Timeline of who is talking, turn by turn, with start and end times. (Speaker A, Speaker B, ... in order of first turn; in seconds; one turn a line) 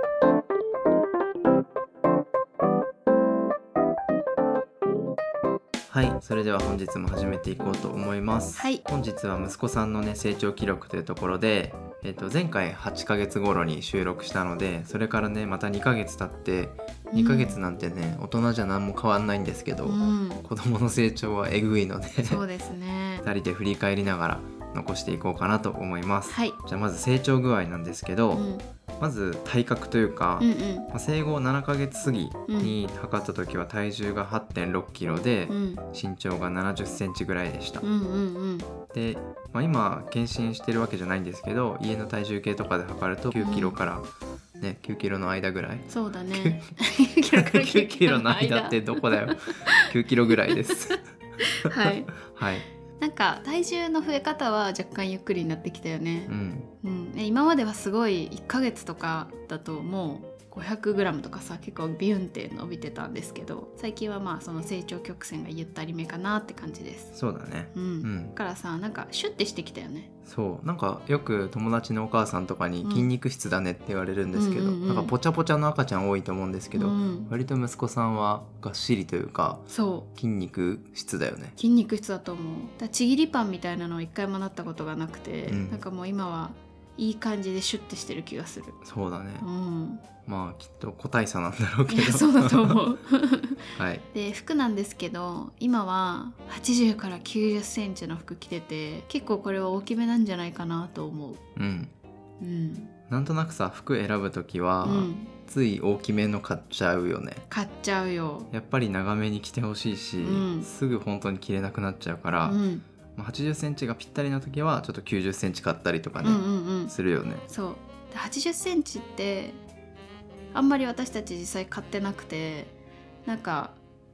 Speaker A: 5.9-22.4
Speaker B: 8.6-8.8
Speaker B: 17.1-17.6
Speaker B: 19.9-20.4
Speaker B: 22.2-23.3
Speaker A: 23.2-28.5
Speaker B: 26.3-26.6
Speaker B: 28.3-28.6
Speaker A: 29.0-37.8
Speaker B: 30.4-30.9
Speaker B: 32.5-32.8
Speaker B: 35.5-35.8
Speaker B: 37.8-38.7
Speaker A: 38.9-46.7
Speaker B: 43.4-43.8
Speaker B: 45.9-49.9
Speaker A: 47.3-51.0
Speaker B: 50.5-52.2
Speaker A: 51.6-52.7
Speaker B: 53.0-67.1
Speaker A: 56.3-56.7
Speaker A: 67.1-68.3
Speaker B: 67.7-70.1
Speaker A: 70.3-81.6
Speaker B: 72.8-73.1
Speaker B: 74.3-75.1
Speaker B: 76.8-77.3
Speaker B: 79.7-80.1
Speaker B: 81.6-88.8
Speaker A: 85.5-85.8
Speaker A: 88.8-89.5
Speaker B: 89.4-90.0
Speaker A: 90.2-92.8
Speaker B: 91.9-101.4
Speaker A: 93.8-94.1
Speaker A: 101.6-101.9
Speaker B: 102.4-102.9
Speaker A: 103.1-107.5
Speaker B: 104.8-105.3
Speaker B: 107.5-108.5
Speaker A: 108.5-112.6
Speaker B: 110.2-110.7
Speaker B: 112.4-112.8
Speaker A: 113.2-117.5
Speaker B: 116.2-116.9
Speaker B: 117.5-119.6
Speaker B: 120.5-122.7
Speaker B: 123.2-123.8